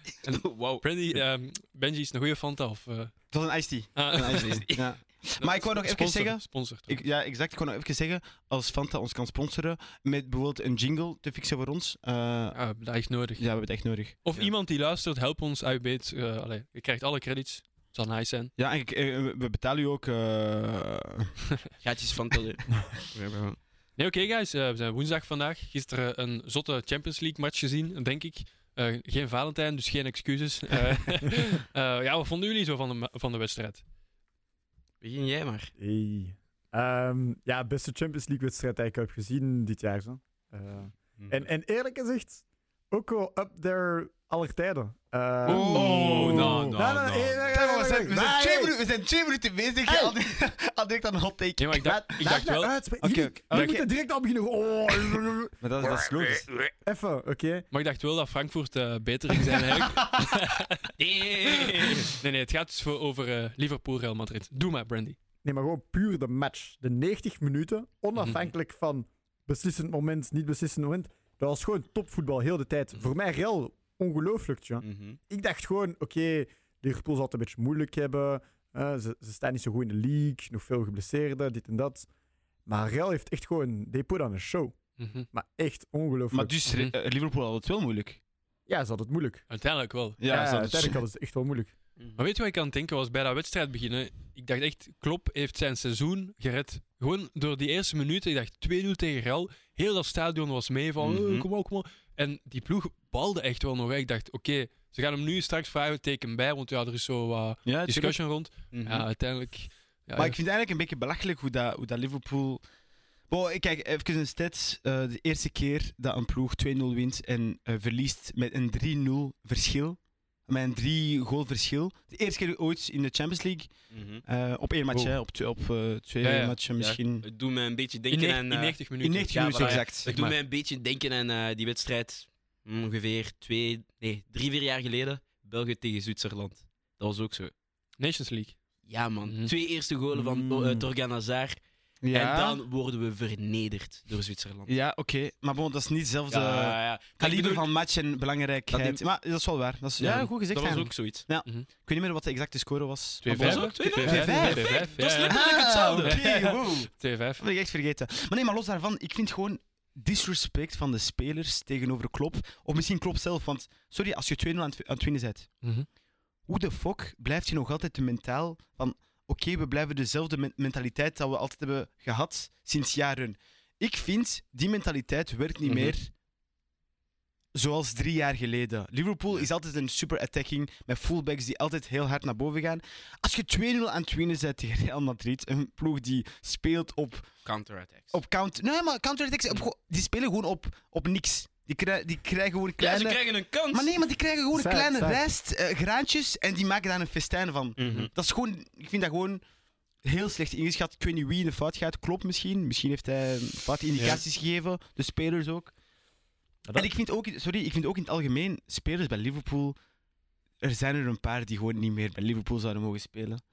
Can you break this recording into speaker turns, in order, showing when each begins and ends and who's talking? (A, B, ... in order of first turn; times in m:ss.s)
0:00.2-0:03.1 A
0:00.3-0:00.8 B
0:03.3-0:12.6 C
0:04.0-0:04.7 A
0:04.2-0:04.9 B
0:05.4-0:07.0 A
0:12.5-0:13.4 A
0:13.4-0:14.2 C
0:14.2-0:18.5 A
0:18.6-0:21.3 C
0:21.8-0:23.6 B
0:24.0-0:33.8 A
0:35.0-0:35.7 B
0:35.8-0:48.8 D
0:45.4-0:46.2 A
0:45.5-0:46.7 C
0:45.7-0:47.5 B
0:47.5-0:53.8 C
0:49.8-0:50.2 D
0:51.6-0:52.7 A
0:51.8-0:55.5 D
0:53.5-0:53.8 A
0:55.6-0:56.5 C
0:56.8-0:57.7 D
0:57.7-1:01.0 A
0:59.7-1:00.5 C
1:01.0-1:02.1 B
1:02.0-1:05.2 A
1:05.4-1:22.1 D
1:08.2-1:08.5 A
1:14.8-1:15.2 B
1:22.6-1:24.8 D
1:25.0-1:25.3 A
1:25.3-1:26.6 D
1:26.3-1:28.2 C
1:26.7-1:26.9 A
1:28.7-1:29.4 D
1:29.5-1:30.2 A
1:30.2-1:31.0 C
1:30.2-1:31.7 D
1:32.2-1:50.4 A
1:41.0-1:41.4 B
1:47.6-1:48.2 C
1:48.7-1:49.0 B
1:50.2-1:52.6 C
1:53.3-2:03.7 C
2:03.9-2:04.2 B
2:04.2-2:07.2 C
2:06.2-2:06.6 A
2:06.8-2:08.8 B
2:08.1-2:10.4 A
2:09.0-2:10.1 C
2:09.3-2:17.5 B
2:18.0-2:18.6 A
2:18.8-2:21.6 B
2:19.2-2:19.5 A
2:20.2-2:20.8 C
2:22.0-2:22.6 C
2:22.1-2:24.7 B
2:24.7-2:45.5 C
2:26.3-2:27.7 B
2:28.7-2:29.0 B
2:30.0-2:31.2 B
2:33.2-2:37.4 A
2:33.3-2:36.2 B
2:46.5-2:56.1 C
2:55.6-2:56.0 B
2:57.5-3:07.3 C
3:07.4-3:08.1 B
3:08.1-3:19.4 C
3:12.8-3:14.0 B
3:14.5-3:15.2 D
3:17.8-3:18.1 B
3:20.0-3:25.7 C
3:24.0-3:24.2 B
3:26.6-3:26.9 D
3:26.7-3:29.8 C
3:30.6-3:33.4 C